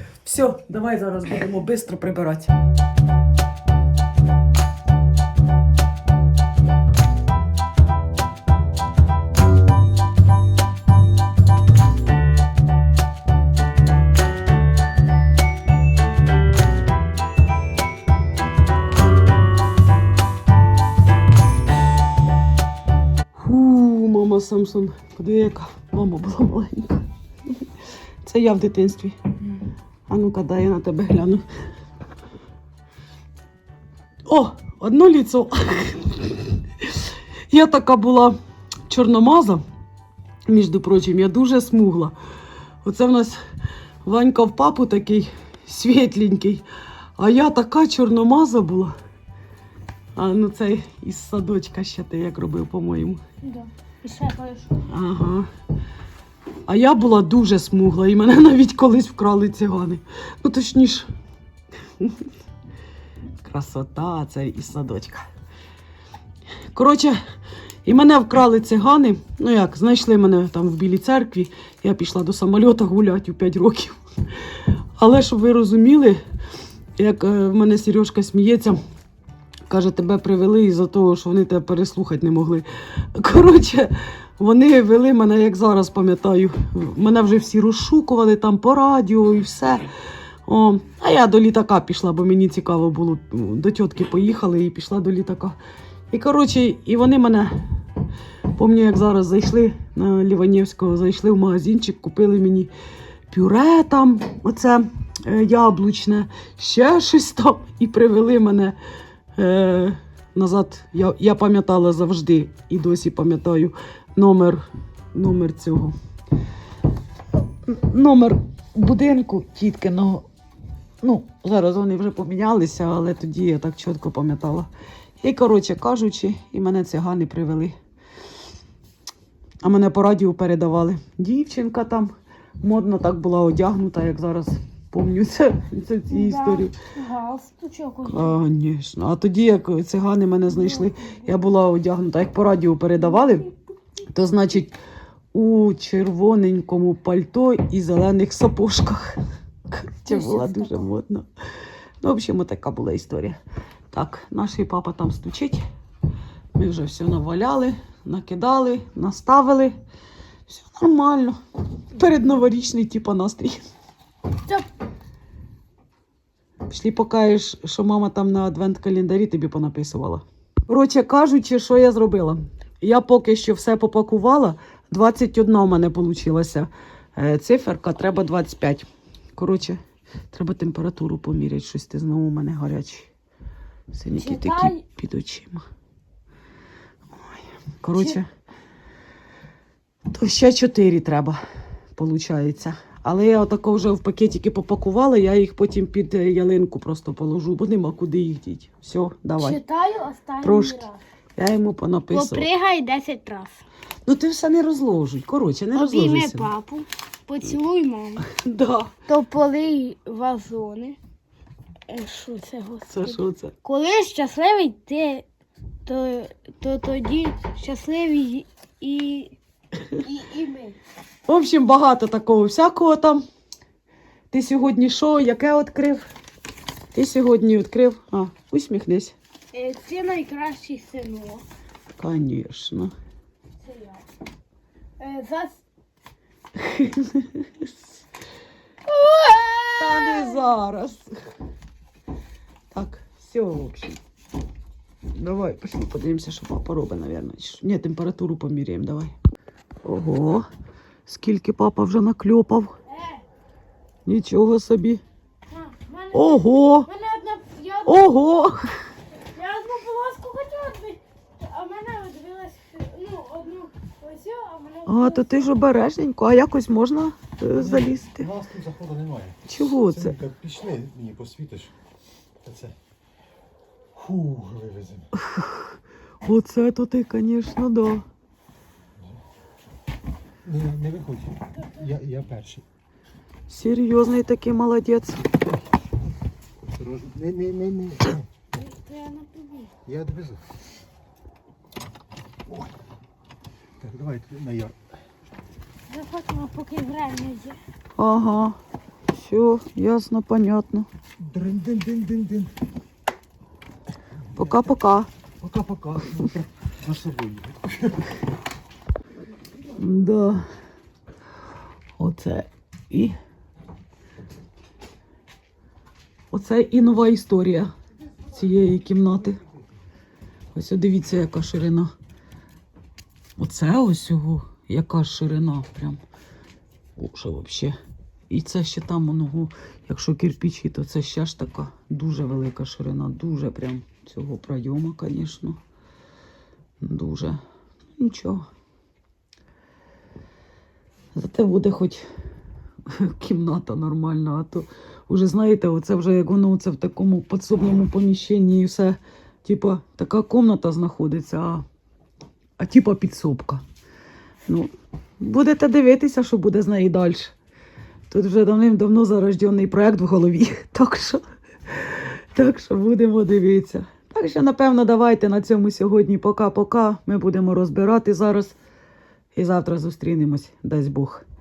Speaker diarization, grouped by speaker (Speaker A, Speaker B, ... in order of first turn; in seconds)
Speaker A: 0.2-2.5, 23.3-27.6, 28.2-29.3, 30.1-31.4, 34.2-38.4, 38.9-39.6, 40.5-42.1, 42.8-43.4, 44.0-46.6, 47.2-48.9, 50.1-53.2, 54.9-55.5, 56.7-61.1, 62.0-62.3, 63.4-65.3, 66.7-67.2, 67.8-76.2, 77.0-78.8, 79.7-89.9, 90.5-95.5, 96.1-97.5, 98.5-102.7, 103.3-108.8, 109.3-116.0, 117.6-120.2, 121.0-124.7, 125.2-127.7, 129.6-136.7, 138.0-143.4, 144.1-144.8, 145.3-149.2, 149.7-151.3, 152.0-153.4, 153.9-155.6, 156.5-159.7, 160.5-161.4, 161.9-163.7, 166.7-179.8, 180.3-183.1, 183.9-185.6, 187.2-188.3, 190.1-191.4, 191.9-199.6, 200.4-202.5, 204.1-206.5, 208.2-208.9, 212.9-213.5, 221.3-223.2, 224.3-226.1, 226.9-229.1, 231.9-232.9, 236.5-237.7, 239.7-241.1, 242.7-244.0, 245.1-249.1, 249.8-250.5, 251.1-252.7, 254.1-255.0, 256.1-256.9, 257.9-258.6, 264.9-268.3, 269.5-270.1, 275.2-275.7, 276.2-278.0, 283.5-285.3, 298.0-298.6, 299.1-300.9, 304.4-305.1, 309.8-310.4, 312.0-313.1, 316.3-317.7, 318.3-319.4, 320.5-321.9, 323.4-326.0, 326.9-327.8, 328.3-335.6, 336.8-337.4, 338.0-338.4, 341.1-342.1, 342.8-351.6, 352.6-353.6, 354.5-357.3, 358.1-368.6, 369.3-371.2
Speaker B: 53.4-54.9, 136.1-138.4, 140.5-141.1, 143.0-143.5, 150.1-150.9, 184.1-184.8, 199.4-201.0, 202.1-203.6, 205.7-208.2, 209.1-211.0, 211.9-215.2, 215.8-219.3, 220.0-220.8, 229.5-231.4, 233.6-234.0, 235.0-235.6, 238.9-240.4, 252.9-253.2, 255.5-258.1, 259.3-265.5, 288.6-289.7, 295.9-297.6
Speaker C: 267.5-271.7, 272.4-272.8, 273.9-275.1, 280.4-282.6, 286.8-288.3, 289.9-290.4, 293.8-294.8, 301.2-302.5, 304.3-304.7, 305.4-308.1